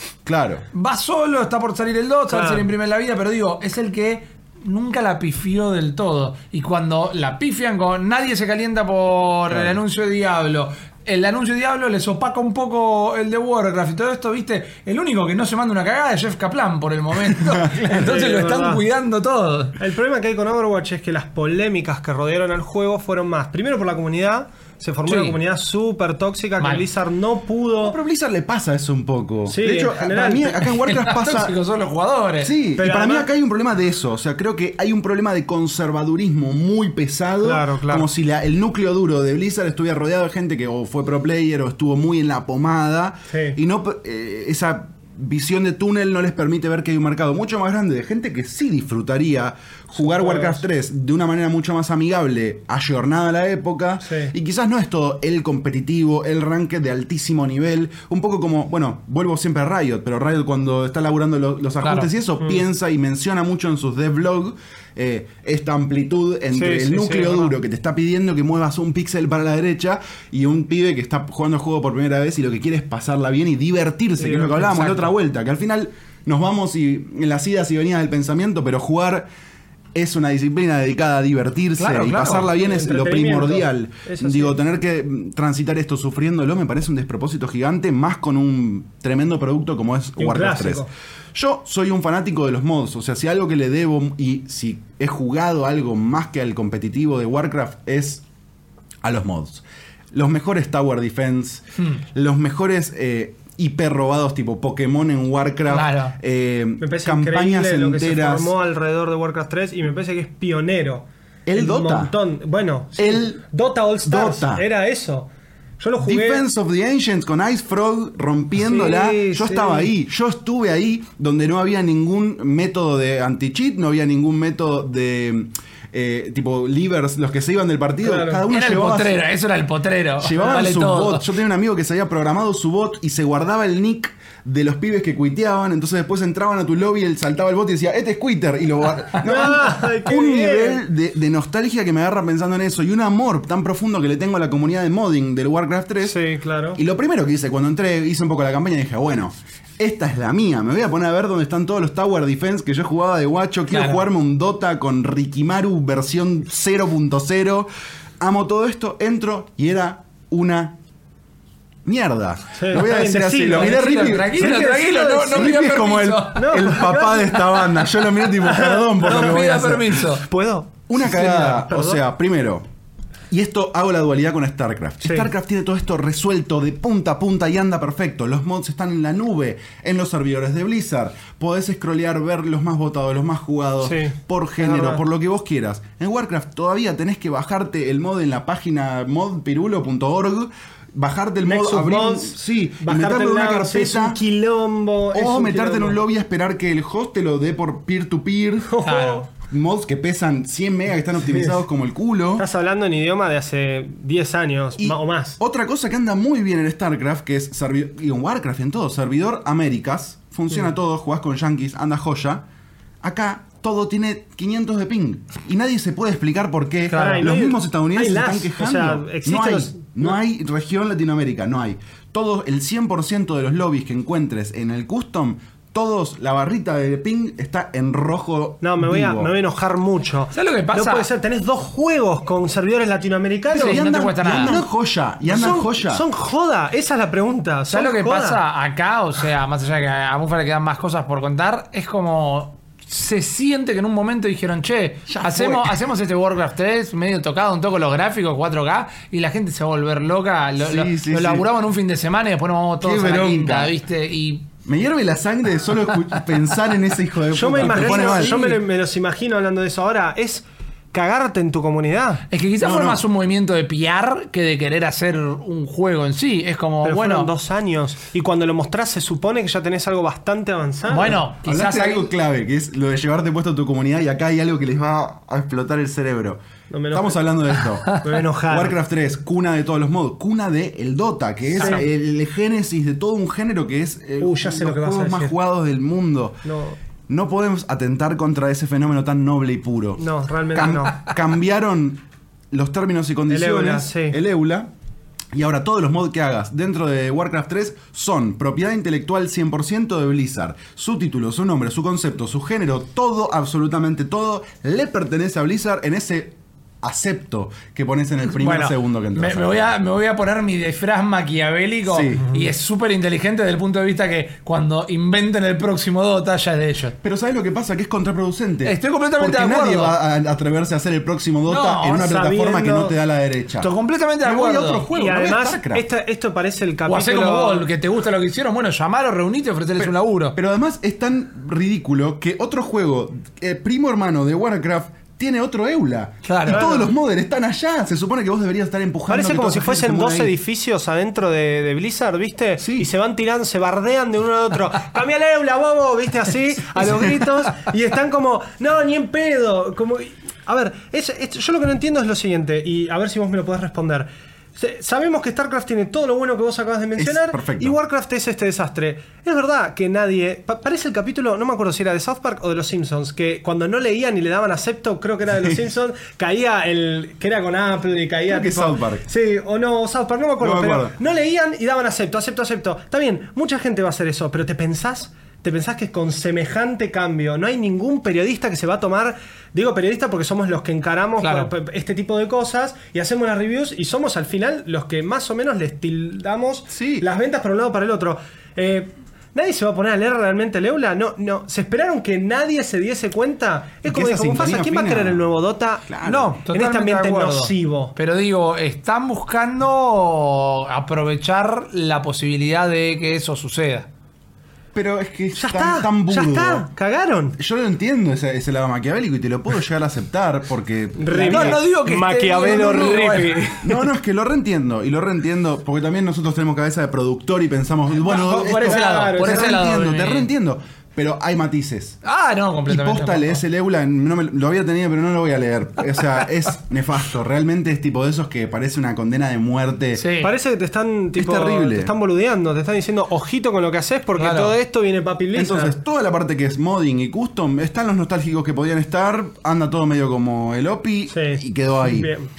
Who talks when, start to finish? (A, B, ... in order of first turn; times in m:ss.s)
0:00.2-0:00.6 A
0:00.7-0:19.8 B
0:02.3-0:02.7 C
0:09.5-0:09.8 A
0:17.3-0:17.6 A
0:17.8-0:18.8 C
0:19.8-0:28.0 C
0:25.0-0:25.4 B
0:26.6-0:26.8 B
0:27.8-0:31.6 A
0:29.4-0:30.7 C
0:30.8-0:32.5 B
0:32.4-1:19.2 A
0:32.8-0:33.3 C
0:37.4-0:38.1 C
0:43.3-0:43.6 C
0:50.0-0:50.6 C
0:54.0-0:54.3 C
1:01.8-1:02.1 B
1:06.5-1:07.5 C
1:14.2-1:14.6 C
1:14.6-1:15.1 B
1:19.9-1:38.2 A
1:21.8-1:22.5 B
1:22.4-1:24.6 C
1:30.2-1:30.9 C
1:39.0-1:48.5 A
1:45.7-1:46.1 B
1:46.8-1:56.4 C
1:51.4-1:52.1 A
1:53.0-1:53.4 A
1:54.0-1:54.6 A
1:56.0-2:09.2 A
1:58.6-1:59.9 C
2:08.0-2:08.4 C
2:08.5-2:11.3 B
2:10.2-2:26.2 A
2:10.4-2:10.6 C
2:19.2-2:20.8 C
2:26.0-2:26.8 C
2:26.7-2:37.7 A
2:33.7-2:34.0 B
2:38.2-2:40.8 A
2:41.8-2:50.1 A
2:42.5-2:45.5 C
2:43.5-2:46.7 B
2:46.3-2:47.7 C
2:48.4-2:49.3 C
2:49.0-2:50.2 B
2:50.2-2:52.0 C
2:50.9-2:52.6 A
2:53.3-3:14.2 A
2:55.0-2:55.3 C
3:03.8-3:05.0 C
3:11.4-3:16.0 C
3:15.1-3:18.8 A
3:18.7-3:19.2 C
3:18.8-3:19.2 B
3:19.5-3:22.4 A
3:21.2-3:21.5 C
3:22.4-3:25.4 C
3:24.8-3:32.4 A
3:33.0-3:49.3 A
3:36.9-3:37.3 B
3:36.9-3:40.1 C
3:48.6-3:54.7 C
3:50.3-3:51.0 B
3:53.5-3:54.5 B
3:53.5-3:56.0 A
3:55.2-3:58.4 C
3:57.7-4:14.5 B
4:05.1-4:05.8 A
4:10.6-4:11.5 A
4:12.8-4:13.7 A
4:14.6-4:18.5 A
4:17.3-4:22.2 C
4:17.5-4:18.6 B
4:22.3-4:27.3 B
4:22.6-4:23.0 A
4:26.8-4:31.2 C
4:30.9-4:32.1 B
4:31.4-4:46.4 A
4:36.7-4:37.2 C
4:38.0-4:38.8 C
4:41.5-4:41.8 B
4:44.2-4:45.3 C
4:46.4-4:46.8 C
4:47.1-4:50.0 A
4:50.0-4:51.0 C
4:50.5-4:54.7 A
4:53.3-4:54.2 C
4:55.3-5:09.7 A
5:08.3-5:17.0 B
5:11.9-5:12.4 A
5:17.0-5:23.7 A
5:18.6-5:20.0 B
5:21.5-5:22.1 B
5:21.9-5:22.9 C
5:23.6-5:24.9 B
5:24.2-5:25.8 A
5:24.9-5:27.7 C
5:26.8-5:30.3 B
5:29.8-5:40.3 A
5:36.2-5:36.6 B
5:36.5-5:36.9 C
5:39.1-6:37.9 C
5:42.6-5:42.9 A
5:57.0-5:57.8 A
6:08.3-6:09.0 A
6:10.4-6:10.9 A
6:21.2-6:21.5 B
6:26.7-6:27.0 A
6:33.8-6:35.2 A
6:35.9-6:36.3 A
6:36.0-6:43.9 B
6:44.7-6:46.6 A
6:45.4-6:47.4 C
6:47.4-6:51.6 A
6:51.0-6:53.8 C
6:51.1-6:53.6 B
6:52.4-7:02.0 A
6:58.0-7:00.3 B
6:58.2-6:59.8 C
7:02.0-7:03.4 B
7:02.7-7:10.0 A
7:10.0-7:10.3 B
7:10.2-7:15.7 C
7:11.2-7:11.9 A
7:14.2-7:14.5 B
7:15.3-7:22.1 A
7:21.1-7:22.3 C